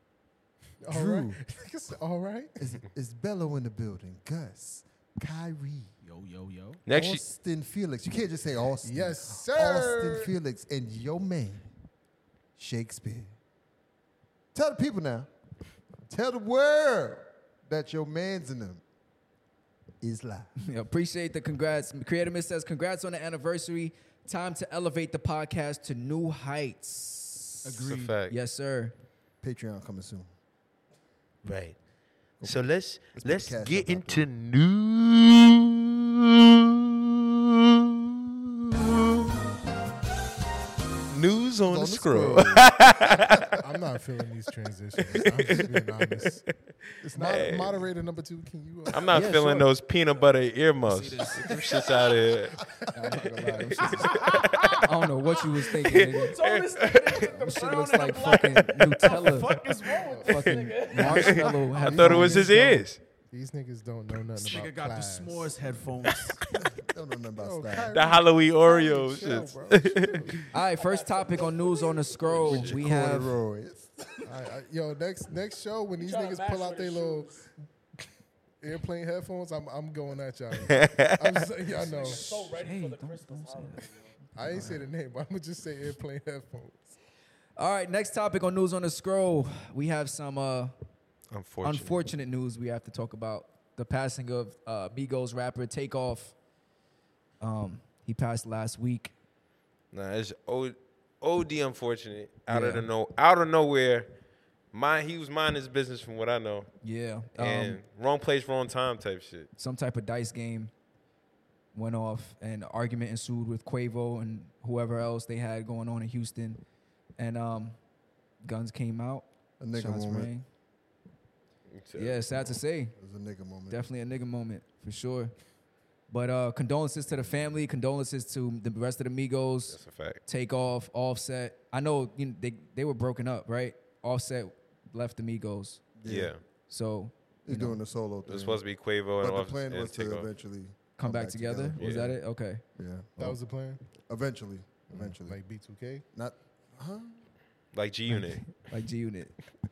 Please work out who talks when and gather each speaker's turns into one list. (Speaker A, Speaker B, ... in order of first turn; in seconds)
Speaker A: 0.8-2.6, 8.8-10.3, 43.6-46.4, 47.0-49.2, 51.5-52.0, 53.1-54.2, 60.0-60.3, 61.0-65.6, 67.4-70.4, 74.2-77.3, 78.6-82.3, 84.3-87.0, 143.2-143.8, 144.9-146.0
Speaker B: 0.9-1.4, 2.6-5.9, 6.9-11.7, 12.6-13.3, 14.5-15.3, 16.0-18.8, 20.0-20.5, 29.4-30.3, 32.4-34.3, 41.6-43.1, 66.6-67.9, 72.5-74.0, 119.6-120.3, 123.0-123.8, 136.0-136.3, 137.4-138.6, 139.2-142.0, 142.8-143.4, 144.0-145.4, 146.1-147.2
Speaker C: 6.0-6.8, 27.6-28.1, 54.1-54.8, 55.9-62.2, 64.4-66.4, 70.8-71.7, 76.0-77.5, 81.8-84.1
Speaker D: 6.8-7.2, 27.8-28.4, 31.4-31.8, 32.4-35.8, 41.1-43.5, 45.0-47.8, 48.9-52.6, 53.9-54.8, 55.8-57.2, 60.3-63.0, 67.9-70.4, 72.3-72.7, 80.6-81.4, 91.3-92.0, 99.9-104.1, 104.7-106.7, 107.4-109.5, 121.7-122.4, 129.7-130.2, 136.0-136.4, 138.2-140.3, 141.8-142.2, 147.7-148.5
Speaker E: 20.6-27.7, 28.3-28.9, 49.1-49.7, 52.9-56.4, 57.1-59.6, 60.2-62.5, 70.5-73.3, 82.3-83.8, 84.4-84.8, 87.6-90.7, 91.6-96.3, 97.4-99.1, 102.5-102.9, 106.8-107.8, 109.6-110.7, 111.7-116.6, 117.2-117.8, 118.4-120.5, 121.9-123.0, 123.7-125.3, 126.1-135.9, 136.7-137.8, 141.0-142.6, 148.1-149.3